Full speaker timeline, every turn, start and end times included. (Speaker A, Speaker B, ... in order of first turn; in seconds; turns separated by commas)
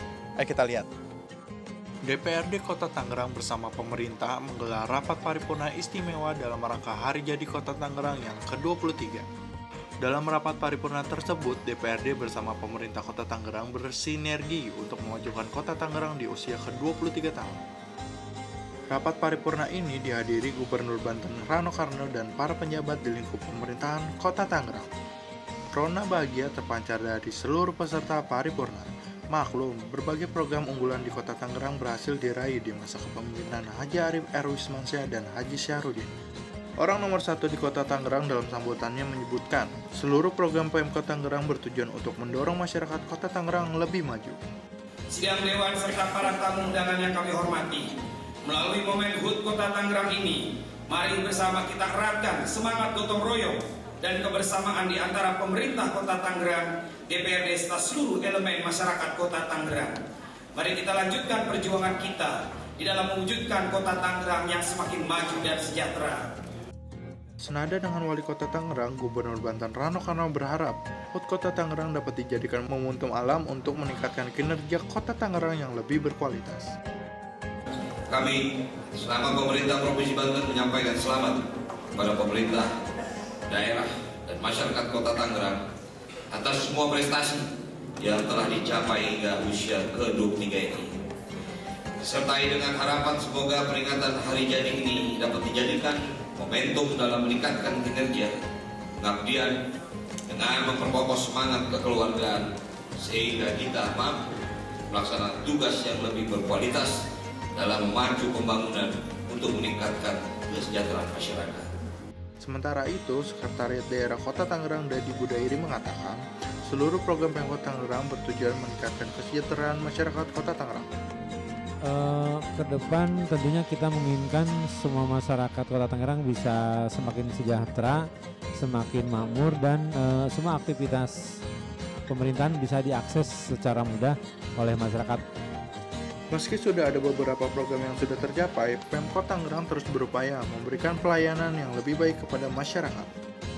Speaker A: 0.4-0.9, Speaker A: 2.0-9.2, Speaker A: 10.0-17.6, Speaker A: 18.9-24.9, Speaker A: 25.7-36.1, Speaker A: 36.8-44.4, Speaker B: 45.1-60.0, Speaker B: 60.5-66.3, Speaker A: 67.4-76.7, Speaker C: 78.1-78.4, Speaker C: 78.9-81.4, Speaker C: 81.9-82.7, Speaker C: 83.5-85.6, Speaker C: 86.3-87.5, Speaker C: 88.0-91.0, Speaker C: 92.0-98.3, Speaker C: 99.0-99.5, Speaker C: 100.3-102.5, Speaker C: 103.0-104.4, Speaker C: 104.9-106.9, Speaker C: 107.5-111.7, Speaker A: 112.4-120.9, Speaker D: 121.8-131.2, Speaker D: 132.1-135.2, Speaker A: 136.3-143.1